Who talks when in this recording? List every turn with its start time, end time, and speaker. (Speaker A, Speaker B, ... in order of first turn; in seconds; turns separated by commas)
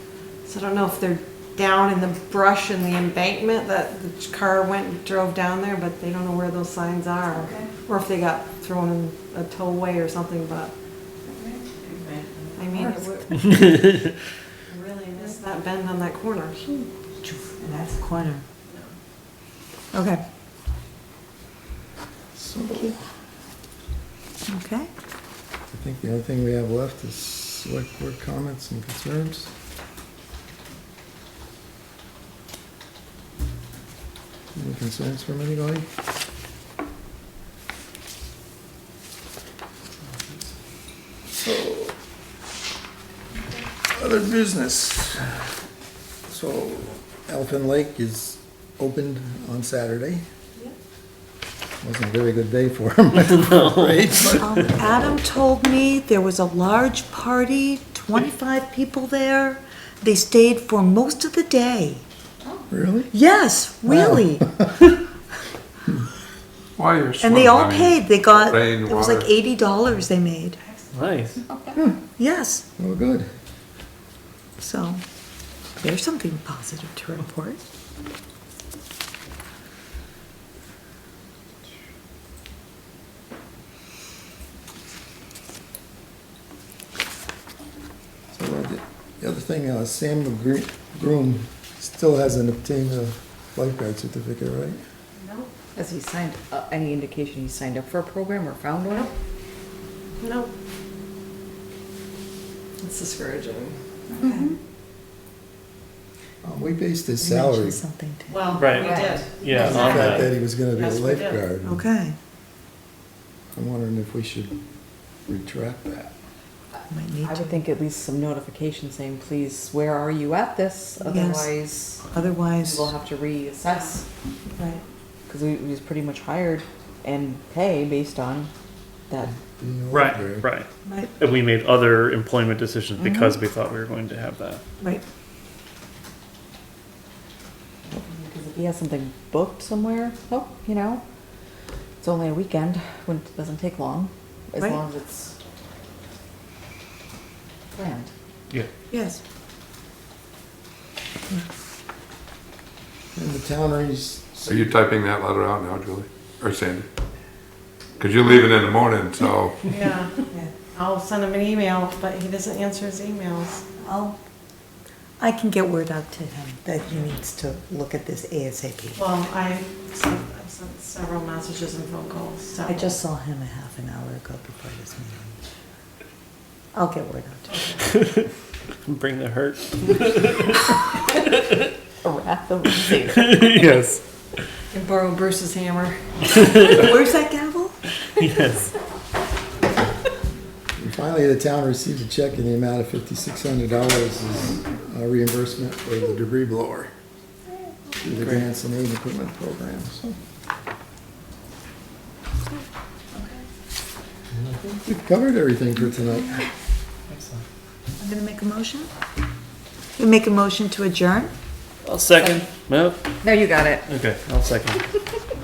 Speaker A: 0.5-10.7, Speaker B: 11.4-12.4, Speaker A: 12.6-13.5, Speaker C: 12.7-13.4, Speaker A: 14.7-16.6, Speaker C: 16.7-18.4, Speaker C: 19.9-20.2, Speaker D: 22.3-23.0, Speaker C: 24.5-24.9, Speaker D: 25.7-29.5, Speaker D: 34.5-35.9, Speaker D: 41.3-42.0, Speaker D: 43.9-45.5, Speaker D: 46.3-50.2, Speaker D: 51.8-55.0, Speaker C: 54.3-62.0, Speaker D: 62.7-63.1, Speaker C: 63.1-64.9, Speaker D: 63.9-64.7, Speaker E: 66.8-69.3, Speaker C: 67.2-70.6, Speaker F: 70.9-71.4, Speaker C: 72.2-72.7, Speaker D: 72.8-73.3, Speaker C: 74.6-75.0, Speaker C: 75.8-77.6, Speaker D: 88.3-94.8, Speaker A: 95.2-95.5, Speaker B: 95.8-99.1, Speaker A: 100.2-100.5, Speaker A: 102.8-104.5, Speaker C: 104.2-104.6, Speaker D: 106.4-107.8, Speaker C: 107.2-108.6, Speaker A: 108.3-110.2, Speaker F: 108.6-110.2, Speaker B: 108.8-109.3, Speaker C: 109.6-110.0, Speaker D: 109.6-111.8, Speaker A: 110.7-111.4, Speaker C: 111.6-112.2, Speaker D: 113.5-114.6, Speaker D: 115.3-116.1, Speaker B: 116.8-124.1, Speaker C: 116.9-117.6, Speaker C: 121.0-121.5, Speaker C: 122.1-122.9, Speaker B: 125.3-128.5, Speaker D: 129.4-130.5, Speaker F: 129.9-130.7, Speaker F: 131.2-134.6, Speaker C: 133.0-133.3, Speaker B: 137.9-141.0, Speaker B: 142.0-145.4, Speaker B: 147.7-148.1, Speaker C: 148.9-149.2, Speaker D: 153.1-154.7, Speaker E: 154.5-156.9, Speaker E: 158.0-159.6, Speaker A: 159.7-160.2, Speaker A: 160.7-163.6, Speaker C: 163.8-164.2, Speaker C: 165.2-169.0, Speaker A: 169.0-173.0, Speaker C: 172.7-175.4, Speaker C: 176.7-177.6, Speaker A: 177.5-177.8, Speaker F: 177.9-178.2, Speaker F: 178.8-180.8, Speaker B: 182.0-183.4, Speaker F: 183.3-184.0, Speaker A: 184.7-186.0, Speaker C: 186.6-187.8, Speaker F: 188.2-188.7, Speaker D: 190.8-196.9, Speaker D: 198.0-200.2, Speaker D: 204.3-206.5, Speaker F: 207.1-207.4, Speaker C: 208.0-208.9, Speaker C: 210.0-211.3, Speaker F: 211.8-213.0, Speaker B: 213.2-213.9, Speaker F: 213.9-214.9